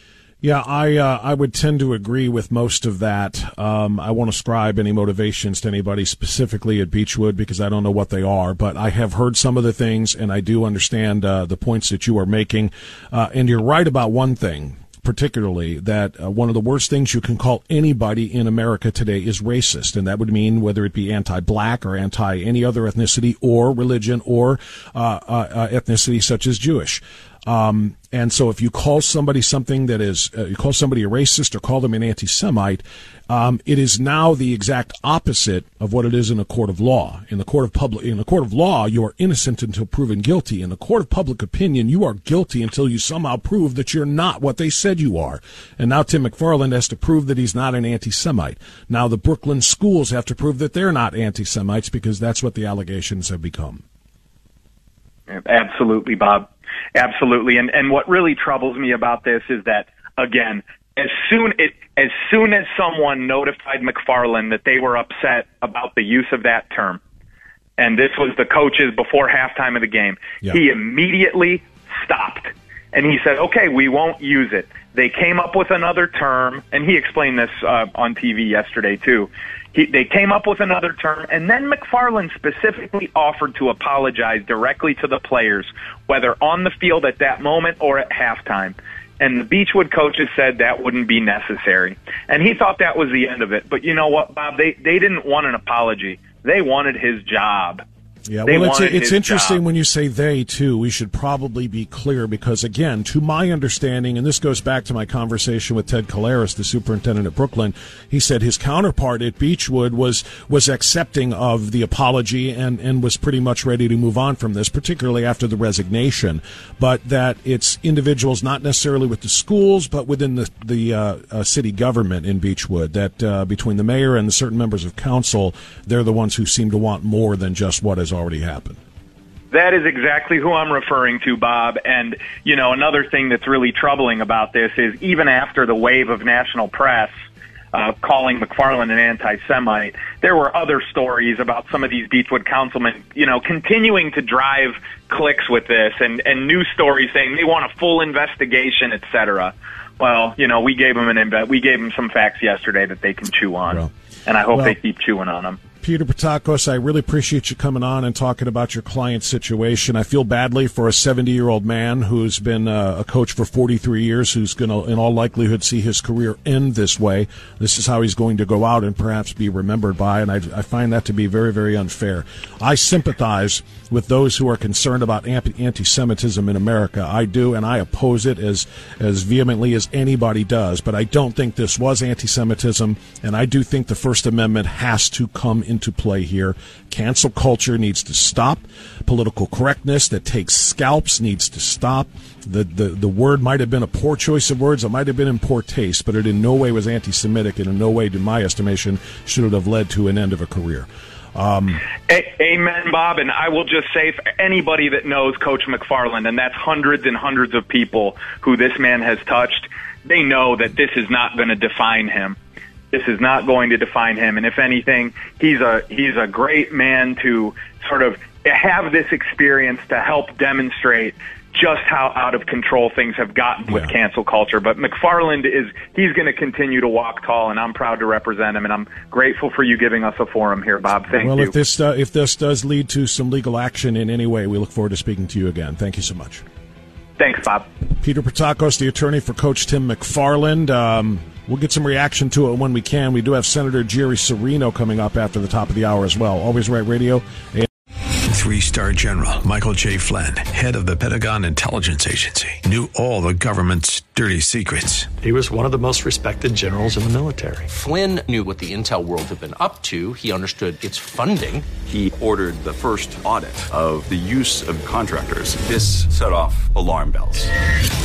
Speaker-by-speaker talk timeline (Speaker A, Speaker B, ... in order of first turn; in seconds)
Speaker A: 0.4-53.8, 98.3-128.8, 155.8-201.8, 223.7-223.9, 231.2-236.4, 238.0-247.7
Speaker B: 55.3-67.0, 67.8-97.8, 98.5-99.6, 129.5-137.1, 137.7-155.6, 202.1-212.4, 212.9-231.5, 237.2-237.7
Speaker C: 248.3-255.1
Speaker D: 255.2-257.7
Speaker E: 257.7-261.6
Speaker F: 261.9-267.5